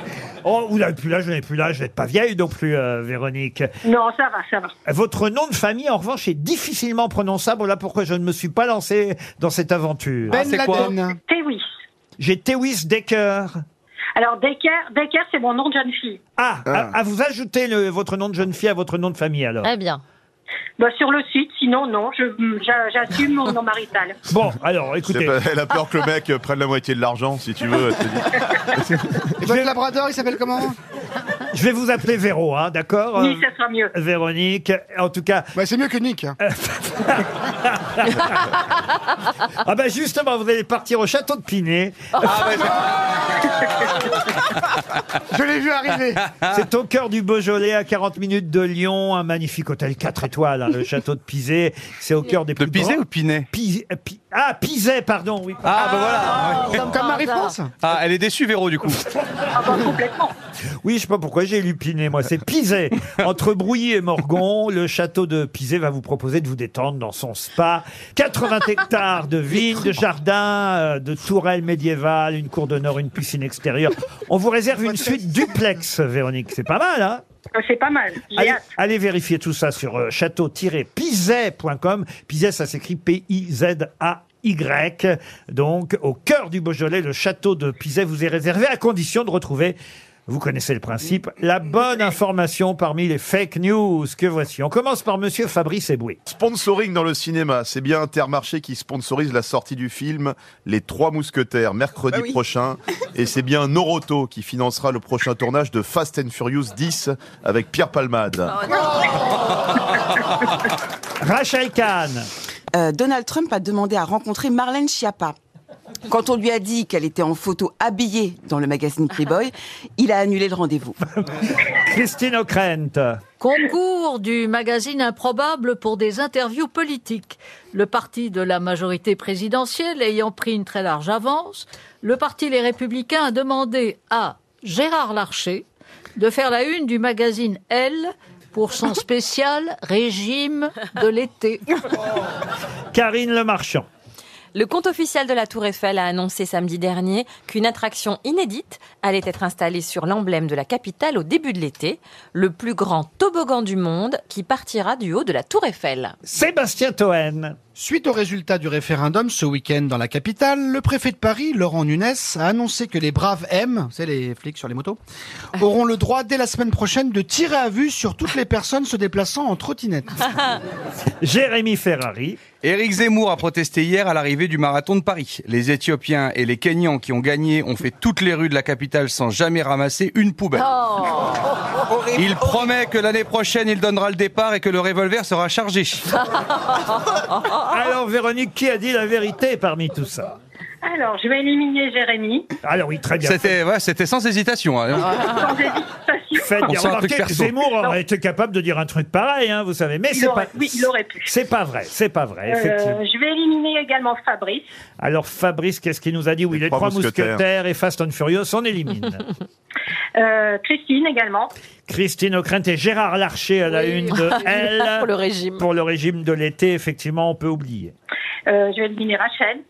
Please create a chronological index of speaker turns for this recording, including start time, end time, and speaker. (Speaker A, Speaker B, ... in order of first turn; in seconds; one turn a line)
Speaker A: 0.4-3.7
Speaker B: 3.8-4.7
Speaker A: 4.8-10.4
Speaker C: 10.3-11.2
Speaker D: 10.3-10.9
Speaker B: 11.3-11.6
Speaker A: 12.2-13.6
Speaker B: 14.2-16.2
Speaker A: 16.4-19.7
Speaker E: 16.7-16.9
Speaker F: 19.6-20.0
Speaker B: 20.8-24.1
Speaker A: 24.3-25.4
Speaker E: 25.0-29.0
Speaker C: 29.4-30.8
Speaker A: 29.4-29.7
Speaker A: 31.5-35.5
Speaker B: 33.2-33.9
Speaker C: 35.5-36.4
Speaker A: 36.4-38.8
Speaker A: 39.6-42.5
Speaker D: 42.2-43.8
Speaker C: 45.3-46.2
Speaker D: 46.1-46.6
Speaker A: 46.5-56.5
Speaker D: 52.6-53.5
Speaker D: 55.6-57.0
Speaker C: 56.1-57.7
Speaker D: 57.8-59.0
Speaker B: 59.6-60.3
Speaker A: 60.8-77.2
Speaker B: 77.5-78.6
Speaker A: 78.3-89.8
Speaker A: 90.3-96.2
Speaker E: 96.3-108.6
Speaker F: 108.7-109.0
Speaker A: 111.2-112.3
Speaker G: 112.7-115.3
Speaker G: 116.1-121.0
Speaker A: 121.6-123.2
Speaker H: 123.4-141.6
Speaker A: 142.9-143.8
Speaker F: 144.5-156.1
Speaker A: 156.2-157.6
Speaker C: 157.7-165.0
Speaker C: 165.6-170.3
Speaker A: 171.2-172.4
Speaker D: 172.6-180.7
Speaker F: 180.6-181.6
Speaker D: 181.9-186.1
Speaker A: 187.6-190.3
Speaker B: 190.9-192.4
Speaker A: 192.6-193.5
Speaker D: 193.2-195.4
Speaker B: 195.4-196.4
Speaker A: 196.3-203.0
Speaker D: 196.6-197.6
Speaker B: 200.1-201.3
Speaker B: 202.5-204.7
Speaker A: 205.0-209.3
Speaker E: 206.5-207.4
Speaker B: 210.2-211.5
Speaker A: 211.9-217.9
Speaker F: 213.8-215.7
Speaker B: 218.5-219.6